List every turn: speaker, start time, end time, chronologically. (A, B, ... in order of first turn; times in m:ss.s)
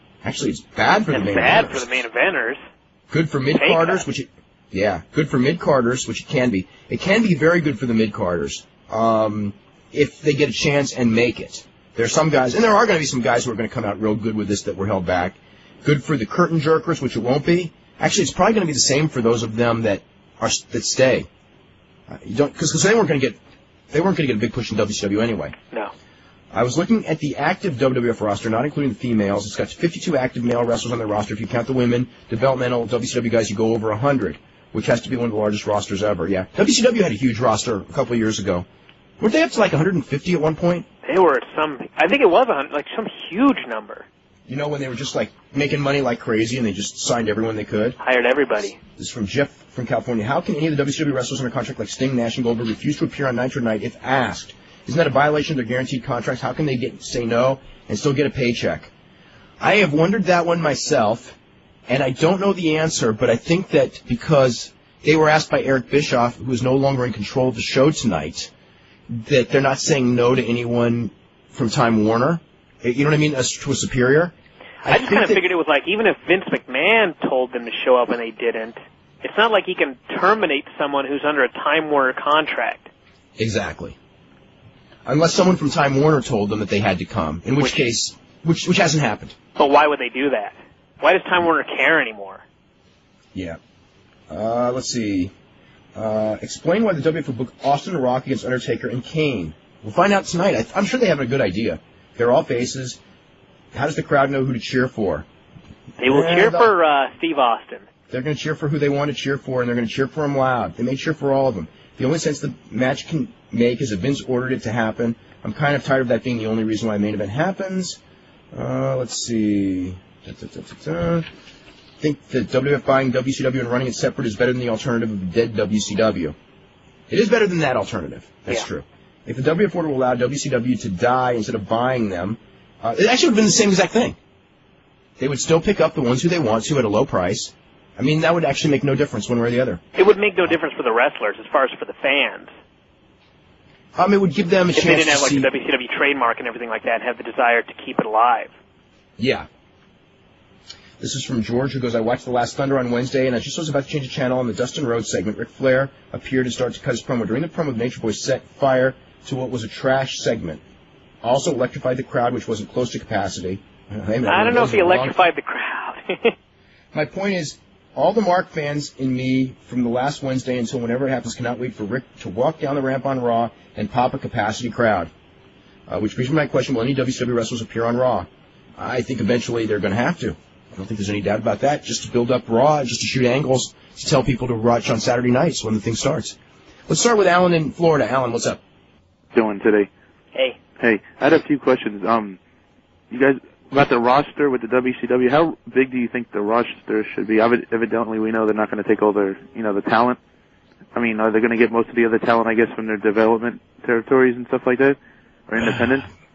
0:00.2-0:01.9 A
0:01.1-0:02.6 B
0:03.1-0:21.3 A
0:03.6-0:04.0 B
0:22.1-0:23.4 A
0:23.9-0:25.6 A
0:26.5-0:38.7 A
0:39.2-0:40.9 A
0:41.0-0:44.1 B
0:44.5-0:48.0 A
0:48.0-0:48.8 B
0:49.0-0:58.9 A
0:59.6-1:01.4 A
1:01.9-1:08.5 A
1:09.1-1:14.3 A
1:14.8-1:22.9 B
1:14.8-1:15.4 A
1:23.4-1:24.0 A
1:25.1-1:29.4 A
1:29.6-1:32.4 B
1:34.3-1:35.3 A
1:36.0-1:43.0 A
1:43.7-1:45.3 A
1:46.0-1:46.7 A
1:46.0-1:47.8 B
1:48.1-1:58.0 A
1:58.5-2:01.3 A
2:02.0-2:06.4 A
2:07.1-2:14.2 A
2:15.2-2:19.8 A
2:20.0-2:22.5 B
2:24.0-2:25.5 A
2:24.7-2:28.5 B
2:29.2-2:29.5 A
2:31.0-2:40.6 A
2:41.2-2:45.2 A
2:44.3-2:46.3 B
2:46.9-2:55.1 A
2:55.9-3:06.4 A
3:06.9-3:08.6 A
3:09.3-3:09.9 C
3:10.8-3:12.4 C
3:13.1-3:20.2 C
3:20.9-3:25.0 C
3:25.5-3:26.1 C